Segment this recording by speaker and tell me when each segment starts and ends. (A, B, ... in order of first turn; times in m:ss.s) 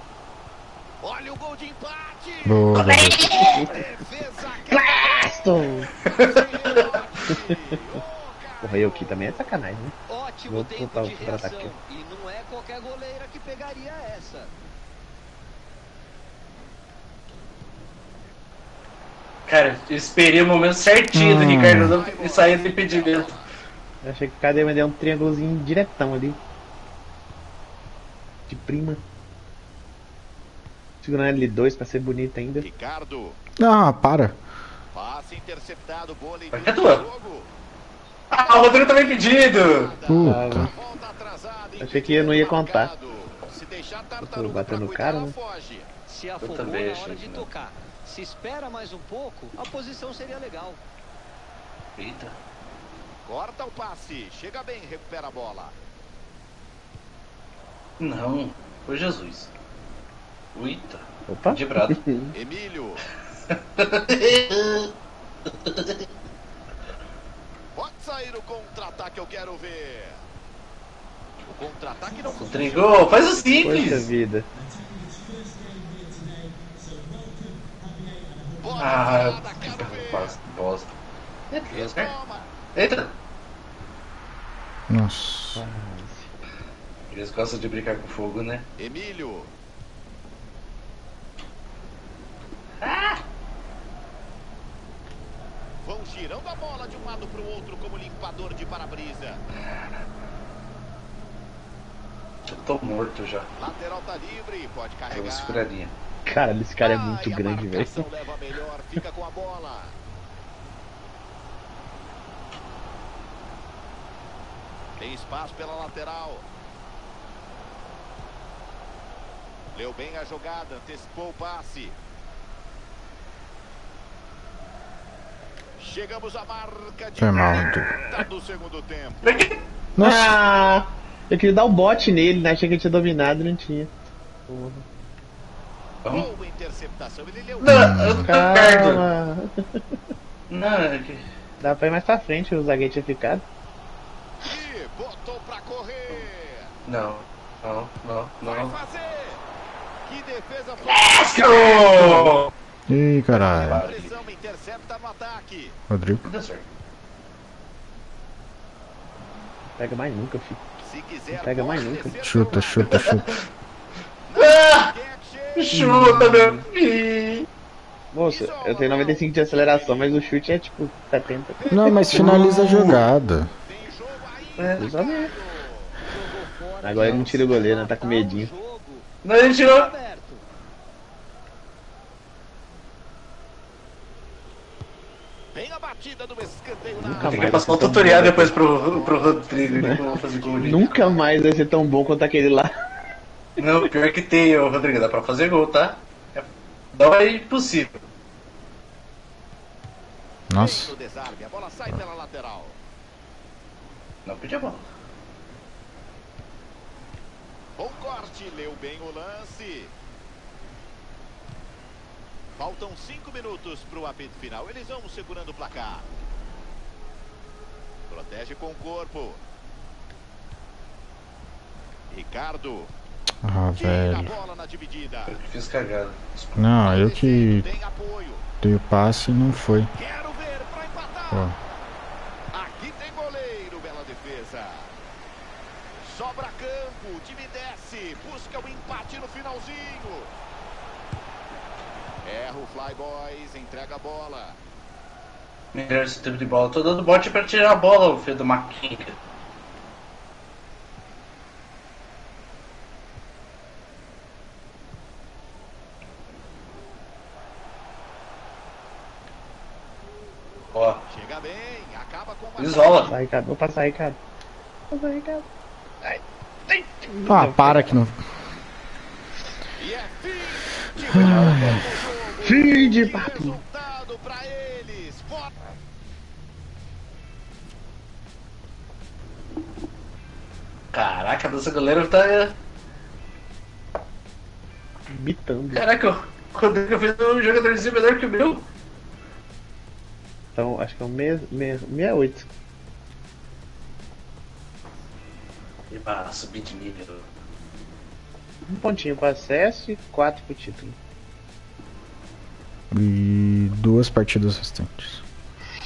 0:01.0-0:09.6 A
0:02.4-0:03.4 B
0:02.7-0:03.6 C
0:03.3-0:03.9 D
0:04.7-0:05.9 D
0:06.1-0:07.0 C
0:07.3-0:07.8 D
0:08.6-0:10.0 D
0:10.1-0:14.5 E
0:10.5-0:11.7 D
0:19.5-0:23.3 C
0:21.1-0:22.0 B
0:21.8-0:23.5 A
0:24.0-0:26.4 D
0:28.5-0:29.0 D
0:31.0-0:32.7 D
0:32.6-0:33.4 A
0:33.6-0:34.4 B
0:34.9-0:37.5 A
0:36.5-0:37.0 C
0:38.3-0:39.9 C
0:38.4-0:45.9 A
0:40.1-0:40.7 B
0:40.2-0:40.7 D
0:41.8-0:42.9 D
0:44.2-0:45.4 D
0:46.1-0:50.8 E
0:46.4-0:47.5 C
0:52.0-0:52.4 C
0:53.2-0:55.8 A
0:58.0-0:59.5 C
1:00.5-1:02.0 C
1:01.3-1:02.3 D
1:02.3-1:03.0 A
1:03.5-1:04.9 C
1:05.5-1:06.1 C
1:07.7-1:10.3 A
1:11.5-1:14.0 A
1:12.3-1:14.1 C
1:13.6-1:14.5 D
1:18.6-1:20.4 A
1:18.8-1:20.9 C
1:21.5-1:22.1 C
1:21.7-1:22.5 A
1:22.7-1:23.1 C
1:24.9-1:25.6 B
1:25.5-1:26.3 D
1:27.1-1:28.7 C
1:28.8-1:29.5 A
1:32.8-1:33.2 C
1:35.8-1:39.4 A
1:42.5-1:43.5 C
1:43.6-1:45.6 A
1:45.1-1:45.9 C
1:46.3-1:48.1 D
1:46.8-1:50.0 A
1:55.0-1:56.5 A
1:59.7-2:02.0 A
2:05.8-2:09.5 A
2:07.2-2:07.9 B
2:07.6-2:07.9 D
2:09.2-2:09.6 C
2:10.0-2:10.4 B
2:10.0-2:13.9 D
2:14.5-2:14.8 D
2:16.0-2:16.3 C
2:16.1-2:18.6 A
2:17.6-2:19.0 C
2:17.6-2:18.3 B
2:18.2-2:20.0 D
2:20.5-2:21.2 C
2:21.6-2:23.4 D
2:24.4-2:26.8 A
2:26.9-2:28.8 C
2:28.4-2:29.4 A
2:30.0-2:31.8 A
2:30.9-2:32.5 C
2:31.7-2:32.4 D
2:32.9-2:33.8 B
2:33.3-2:35.8 A
2:33.5-2:34.2 C
2:35.9-2:36.3 B
2:36.2-2:36.6 C
2:39.8-2:40.6 D
2:40.8-2:43.3 A
2:41.3-2:42.2 D
2:42.2-2:43.3 B
2:42.9-2:43.3 C
2:44.3-2:46.1 A
2:44.4-2:44.9 C
2:45.6-2:47.5 C
2:45.7-2:46.7 D
2:48.1-2:52.9 D
2:48.3-2:50.2 A
2:51.6-2:56.0 A
2:51.7-2:53.5 B
2:52.1-2:53.0 C
2:54.7-2:55.3 D
2:56.1-3:00.4 E
2:56.8-2:58.5 D
2:57.0-2:57.3 C
2:59.2-2:59.9 C
3:05.5-3:11.2 A
3:07.0-3:08.6 D
3:07.0-3:10.9 C
3:09.7-3:10.0 D
3:10.6-3:12.7 D
3:13.6-3:18.0 C
3:20.5-3:20.9 B
3:20.5-3:22.8 A
3:24.2-3:24.8 C
3:27.8-3:29.9 A
3:32.6-3:36.1 A
3:38.1-3:39.4 A
3:42.1-3:42.9 A
3:43.4-3:44.3 B
3:43.8-3:45.4 A
3:45.3-3:46.7 C
3:46.6-3:47.7 B
3:46.8-3:48.4 A
3:48.6-3:49.9 B
3:50.0-3:51.6 A
3:52.5-3:54.9 A
3:56.0-4:00.3 A
4:02.2-4:04.6 A
4:05.7-4:09.2 C
4:20.7-4:21.0 C
4:21.1-4:23.2 A
4:22.6-4:23.1 C
4:23.1-4:24.2 D
4:24.9-4:25.5 D
4:26.0-4:28.0 D
4:27.2-4:28.2 B
4:29.8-4:35.5 A
4:31.1-4:31.9 C
4:31.2-4:31.8 B
4:32.4-4:33.6 D
4:40.9-4:42.6 C
4:45.1-4:45.9 D
4:45.7-4:48.6 C
4:50.6-4:52.5 D
4:55.9-4:57.3 C
4:58.7-5:01.0 D
5:02.9-5:05.2 B